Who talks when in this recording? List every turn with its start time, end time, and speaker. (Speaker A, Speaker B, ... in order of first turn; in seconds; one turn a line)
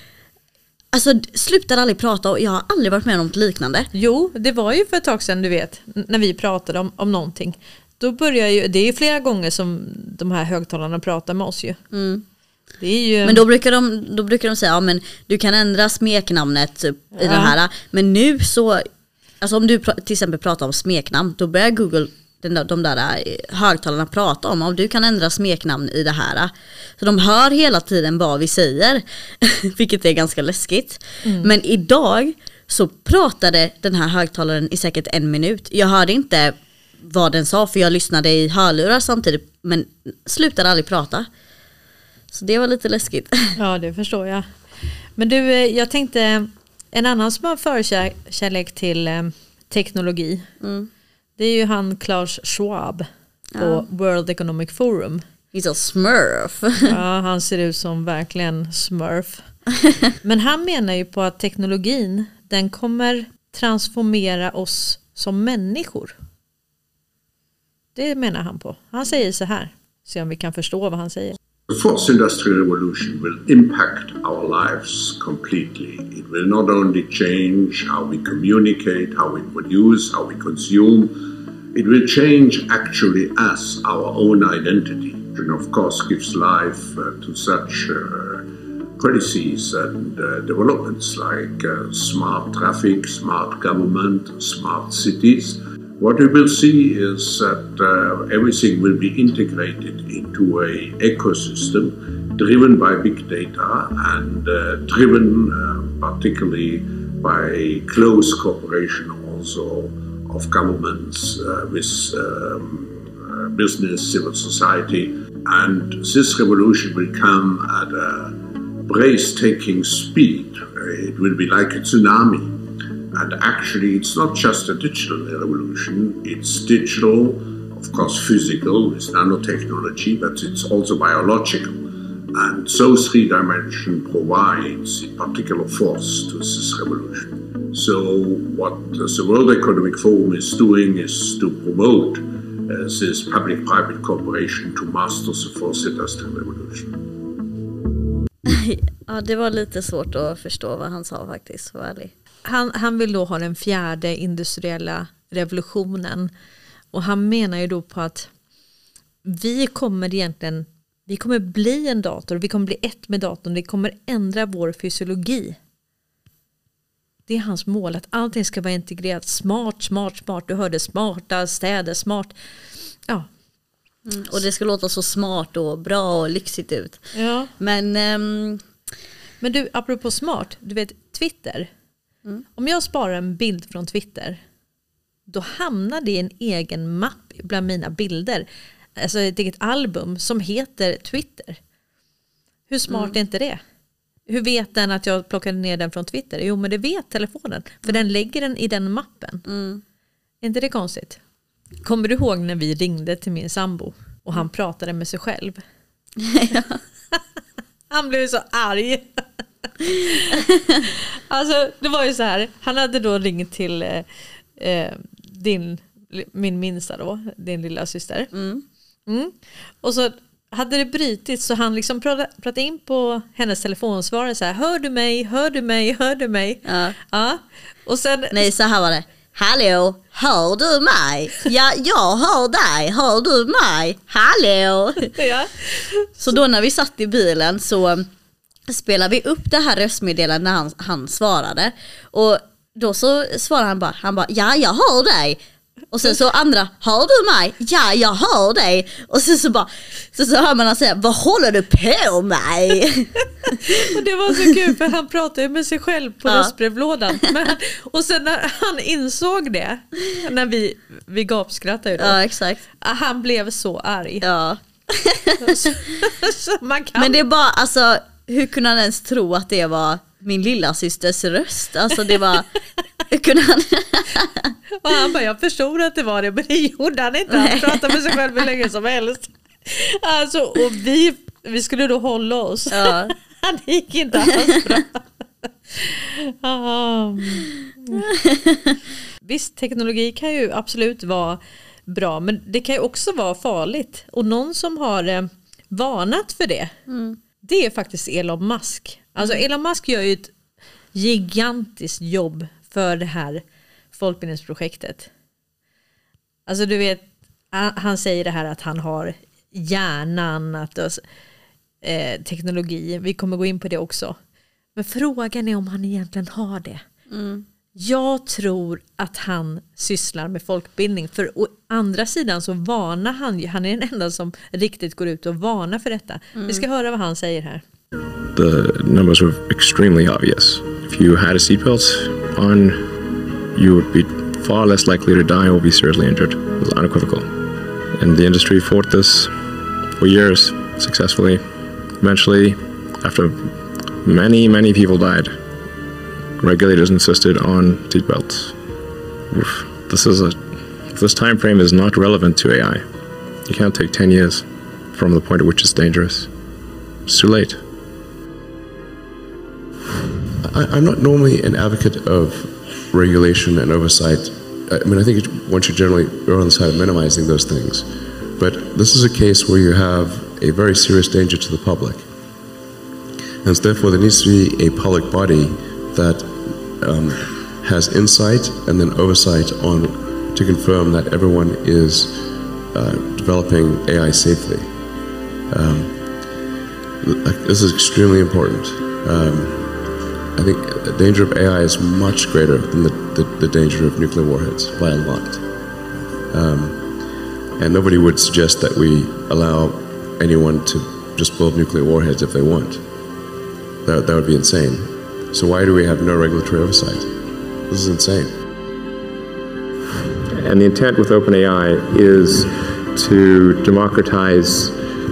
Speaker A: 0.9-3.9
Speaker B: 3.9-11.8
Speaker A: 11.9-12.2
Speaker B: 12.8-13.4
Speaker A: 13.2-18.9
Speaker B: 17.1-17.6
Speaker A: 19.4-41.3
Speaker B: 31.2-31.5
Speaker A: 42.3-43.6
Speaker B: 43.6-44.5
Speaker B: 45.1-50.5
Speaker A: 50.6-50.9
Speaker B: 51.4-53.0
Speaker A: 53.5-53.8
Speaker B: 53.6-55.2
Speaker A: 55.5-56.9
Speaker B: 56.9-59.5
Speaker B: 60.2-66.2
Speaker B: 67.9-71.4
Speaker C: 71.7-81.2
Speaker C: 81.7-122.6
Speaker C: 123.1-147.1
Speaker A: 148.5-152.1
Speaker B: 152.4-156.3
Speaker B: 156.9-158.3
Speaker B: 159.2-165.6
Speaker B: 167.3-172.3
Speaker A: 174.0-178.6
Speaker B: 177.1-177.5
Speaker B: 179.4-181.7
Speaker B: 182.6-184.4
Speaker B: 185.3-188.4
Speaker B: 189.0-191.6
Speaker B: 192.7-193.6
Speaker A: 192.9-193.1
Speaker B: 194.3-199.4
Speaker A: 199.4-199.8
Speaker B: 200.4-201.2
Speaker B: 201.8-205.6
Speaker A: 206.2-206.8
Speaker B: 207.9-209.4
Speaker B: 209.9-218.3
Speaker A: 210.4-210.7
Speaker A: 218.3-218.6
Speaker B: 219.1-228.5
Speaker A: 226.6-226.9
Speaker A: 228.3-235.1
Speaker B: 235.1-236.1
Speaker A: 236.2-238.1
Speaker A: 238.7-245.4
Speaker A: 245.9-253.7
Speaker B: 253.8-262.2
Speaker A: 256.2-256.5
Speaker A: 262.0-262.6
Speaker B: 262.8-264.2
Speaker A: 264.2-265.7
Speaker B: 265.4-267.2
Speaker A: 266.9-272.5
Speaker A: 273.1-274.5
Speaker B: 274.8-288.1
Speaker A: 277.3-278.1
Speaker A: 282.7-283.1
Speaker A: 288.2-288.6
Speaker B: 289.2-296.7
Speaker A: 296.9-297.2
Speaker B: 297.4-300.3
Speaker B: 300.9-303.4
Speaker B: 303.9-305.1
Speaker B: 306.5-311.0
Speaker B: 311.8-314.2
Speaker B: 314.7-316.8
Speaker A: 317.1-317.4
Speaker B: 317.8-327.6
Speaker A: 326.4-326.6
Speaker D: 328.3-332.9
Speaker D: 333.5-337.3
Speaker D: 337.9-339.3
Speaker D: 340.0-341.4
Speaker D: 342.0-345.3
Speaker D: 346.4-348.6
Speaker D: 349.3-352.8
Speaker D: 353.4-356.3
Speaker D: 357.1-357.6
Speaker E: 360.4-372.1
Speaker E: 373.4-386.4
Speaker E: 387.0-402.9
Speaker E: 403.8-408.4
Speaker D: 410.3-414.7